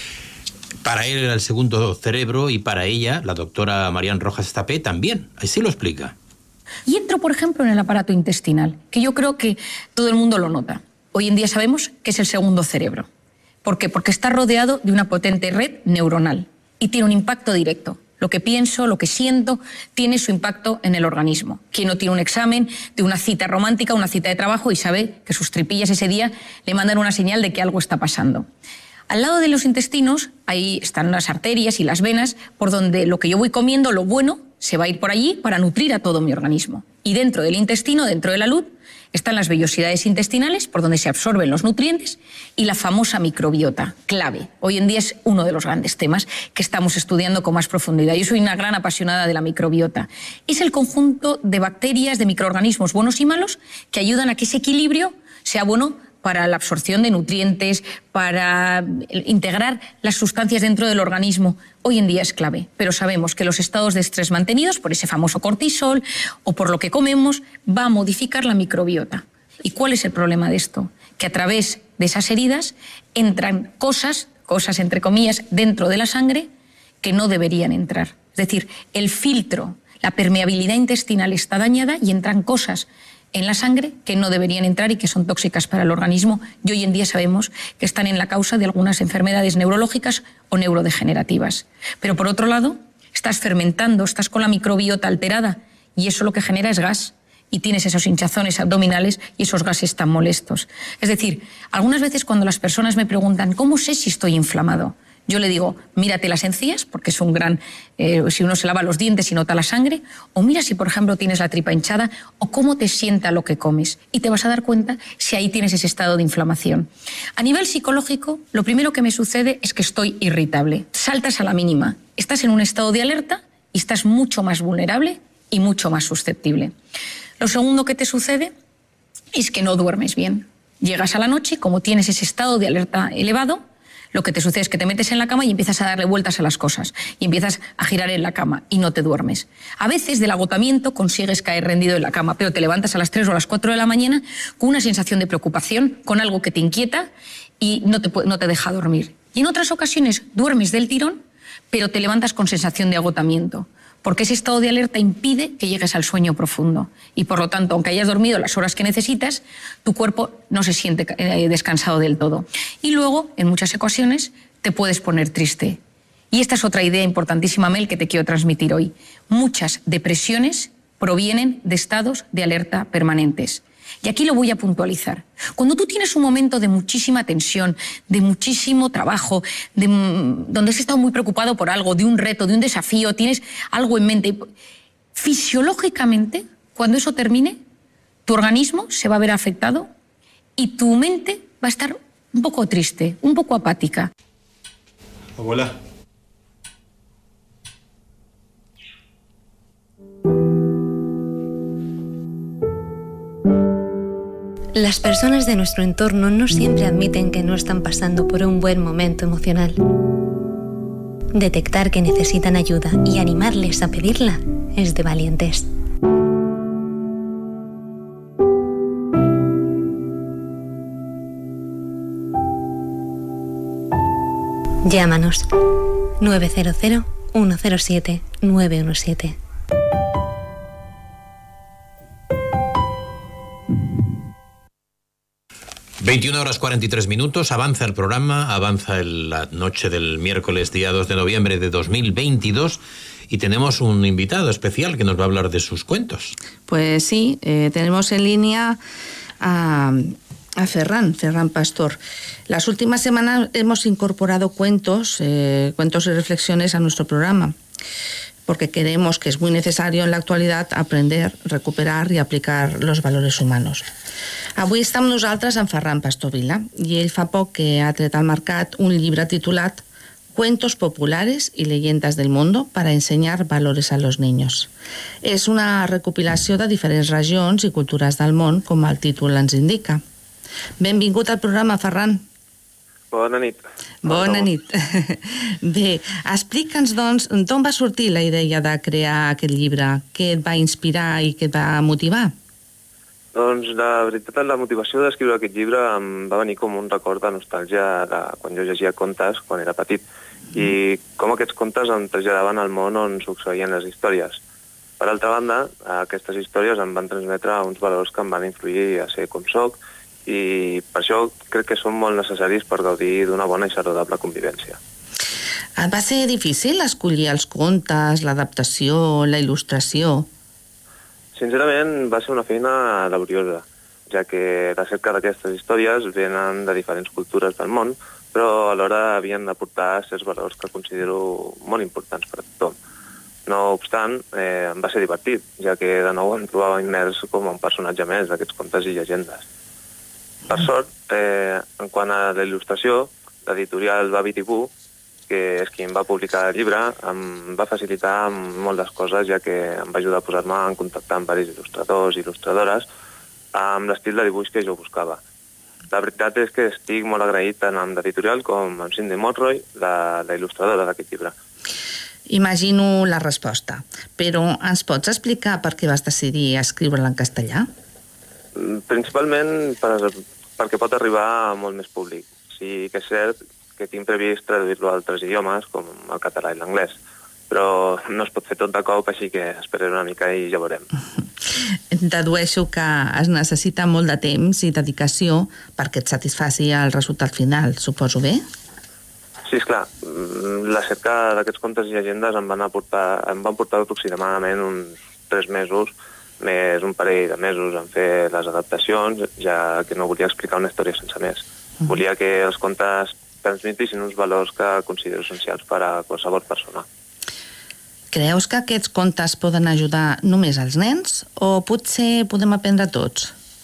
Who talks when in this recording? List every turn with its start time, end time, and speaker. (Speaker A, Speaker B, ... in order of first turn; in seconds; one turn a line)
Speaker A: 0.8-6.1
Speaker B: 6.9-13.1
Speaker B: 13.7-28.5
Speaker B: 29.1-76.5
Speaker B: 77.0-126.7
Speaker B: 127.4-128.5
Speaker B: 129.3-147.1
Speaker B: 147.6-165.8
Speaker B: 166.3-184.5
Speaker B: 185.2-187.6
Speaker B: 188.3-189.9
Speaker B: 190.6-194.1
Speaker C: 204.8-209.8
Speaker C: 211.3-215.7
Speaker C: 224.8-225.5
Speaker C: 226.2-229.4
Speaker A: 236.0-246.4
Speaker D: 246.7-248.8
Speaker D: 249.4-257.6
Speaker D: 258.5-263.9
Speaker D: 264.6-269.8
Speaker D: 270.4-274.7
Speaker D: 275.2-280.0
Speaker D: 280.8-282.2
Speaker E: 283.1-284.5
Speaker D: 284.0-292.3
Speaker E: 293.4-300.0
Speaker E: 300.6-304.4
Speaker E: 305.0-314.8
Speaker D: 315.8-320.3
Speaker E: 321.4-332.7
Speaker E: 333.5-339.4
Speaker E: 340.5-344.7
Speaker E: 345.3-352.9
Speaker E: 353.5-355.2
Speaker E: 355.9-361.3
Speaker D: 362.3-367.7
Speaker E: 368.6-377.0
Speaker E: 377.5-380.9
Speaker D: 381.5-388.4
Speaker E: 389.5-406.9
Speaker D: 408.1-413.3